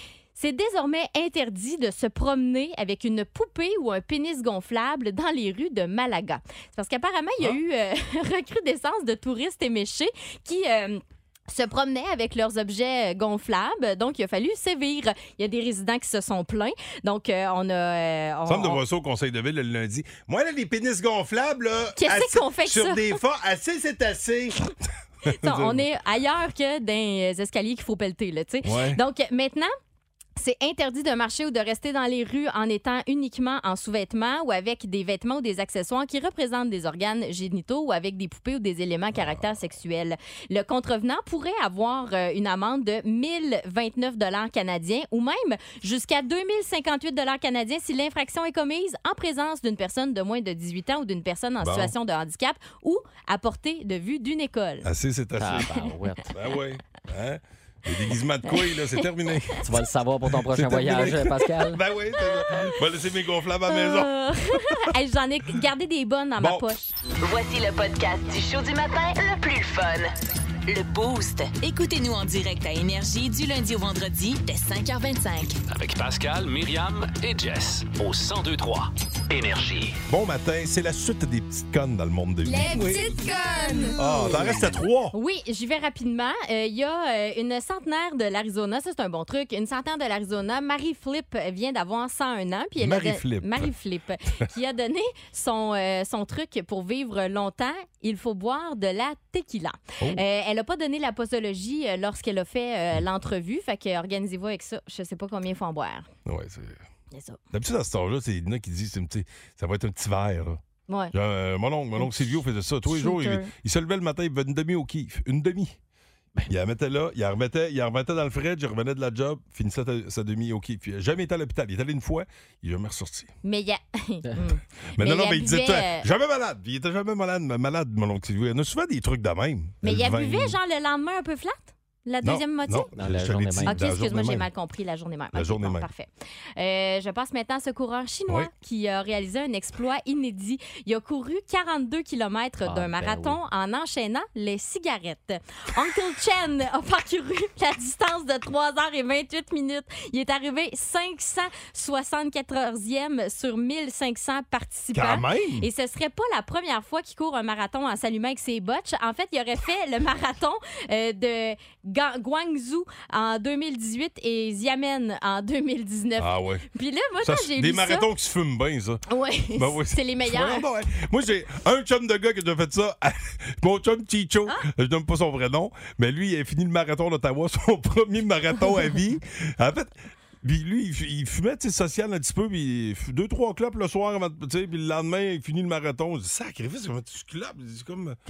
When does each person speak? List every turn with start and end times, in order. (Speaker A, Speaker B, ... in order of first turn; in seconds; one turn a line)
Speaker A: 0.3-18.8
Speaker B: 18.5-24.6
Speaker A: 22.0-23.2
Speaker B: 25.2-25.9
Speaker A: 25.3-29.7
Speaker B: 28.6-29.0
Speaker A: 30.4-54.9
Speaker B: 39.1-39.7
Speaker B: 51.6-51.9
Speaker B: 54.8-55.8
Speaker C: 55.4-56.3
Speaker B: 56.3-59.7
Speaker A: 58.5-59.0
Speaker C: 59.6-61.8
Speaker B: 60.2-64.8
Speaker A: 62.3-62.7
Speaker A: 63.7-66.9
Speaker B: 66.4-66.7
Speaker D: 67.2-70.1
Speaker D: 70.7-75.6
Speaker E: 75.7-80.0
Speaker B: 80.1-83.1
Speaker A: 82.5-84.5
Speaker B: 84.0-85.2
Speaker A: 85.1-106.1
Speaker B: 92.8-93.7
Speaker B: 106.3-106.8
Speaker A: 107.1-107.4
Speaker B: 107.5-110.6
Speaker A: 110.9-111.1
Speaker B: 111.1-115.8
Speaker A: 112.9-113.5
Speaker B: 116.5-123.3
Speaker A: 123.4-126.1
Speaker B: 125.0-130.6
Speaker A: 129.8-132.9
Speaker B: 132.2-134.5
Speaker C: 133.0-133.8
Speaker A: 133.6-168.1
Speaker B: 135.3-135.9
Speaker C: 142.6-143.4
Speaker B: 154.9-155.7
Speaker B: 166.2-166.7
Speaker B: 167.2-169.0
Speaker A: 169.1-170.7
Speaker B: 169.5-188.2